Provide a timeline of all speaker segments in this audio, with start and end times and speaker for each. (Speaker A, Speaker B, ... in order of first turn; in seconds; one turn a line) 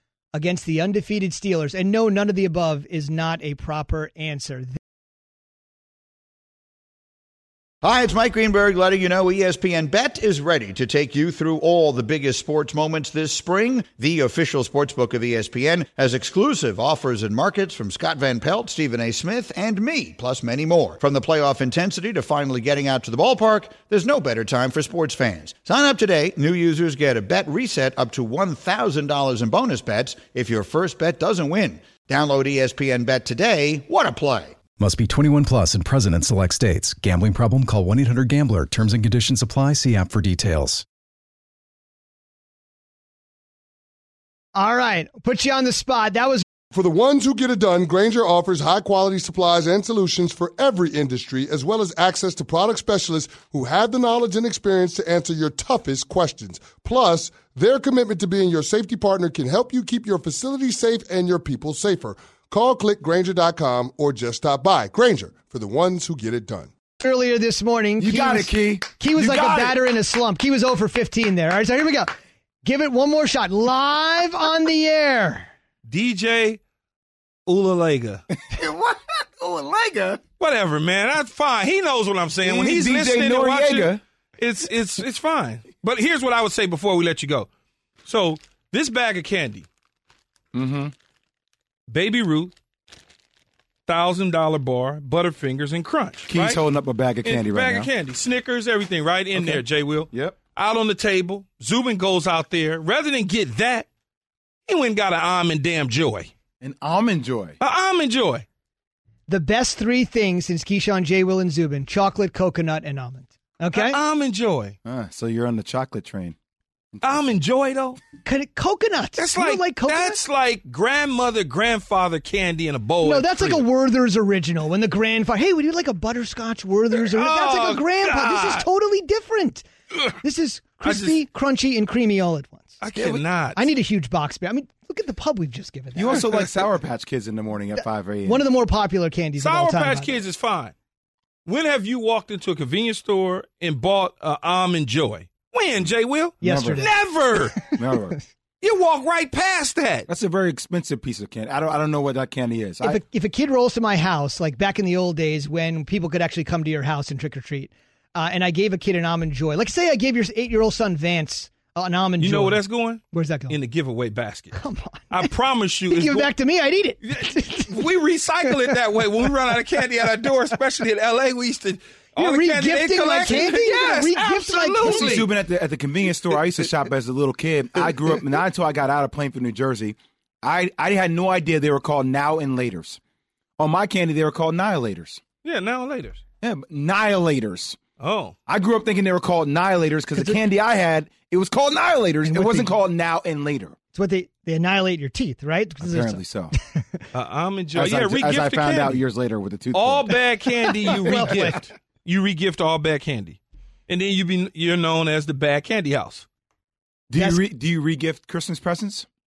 Speaker A: 0.3-4.8
Speaker B: 7.8-34.6
Speaker C: 34.7-40.8
Speaker A: 44.6-46.4
Speaker D: 46.7-66.7
Speaker A: 67.0-72.1
Speaker E: 68.0-69.8
Speaker A: 72.7-75.5
Speaker F: 75.9-76.6
Speaker F: 77.5-78.2
Speaker E: 78.5-80.2
Speaker F: 80.4-87.5
Speaker E: 82.4-84.0
Speaker F: 88.0-89.7
Speaker E: 90.5-90.9
Speaker F: 91.9-92.5
Speaker F: 93.9-96.6
Speaker E: 96.3-97.9
Speaker F: 97.2-103.9
Speaker E: 99.3-100.4
Speaker F: 104.7-106.3
Speaker E: 106.6-107.6
Speaker F: 107.6-108.5
Speaker A: 109.3-114.0
Speaker F: 113.7-114.8
Speaker E: 114.8-116.4
Speaker E: 116.9-117.3
Speaker F: 117.0-118.0
Speaker A: 118.2-120.2
Speaker F: 119.2-123.6
Speaker A: 123.0-129.7
Speaker F: 126.9-128.7
Speaker A: 130.2-132.8
Speaker F: 130.8-131.2
Speaker F: 132.8-133.7
Speaker E: 133.0-133.2
Speaker A: 133.6-136.6
Speaker E: 135.9-138.4
Speaker A: 138.2-140.1
Speaker F: 139.4-140.7
Speaker F: 141.5-147.7
Speaker A: 146.4-146.9
Speaker E: 146.4-146.9
Speaker E: 147.6-148.2
Speaker F: 148.6-150.1
Speaker E: 150.1-153.0
Speaker A: 152.8-162.6
Speaker F: 162.2-166.3
Speaker A: 163.1-163.6
Speaker A: 164.6-165.3
Speaker A: 165.9-167.8
Speaker F: 167.0-175.3
Speaker A: 172.2-175.3
Speaker E: 174.8-183.0
Speaker E: 183.6-185.2
Speaker F: 185.4-186.2
Speaker E: 186.4-187.8
Speaker F: 188.0-188.3
Speaker E: 188.5-193.8
Speaker A: 192.2-192.8
Speaker A: 193.9-196.2
Speaker E: 195.8-196.5
Speaker F: 197.1-199.0
Speaker E: 197.8-200.2
Speaker F: 199.7-206.3
Speaker E: 200.9-201.5
Speaker A: 201.1-201.6
Speaker E: 207.1-209.1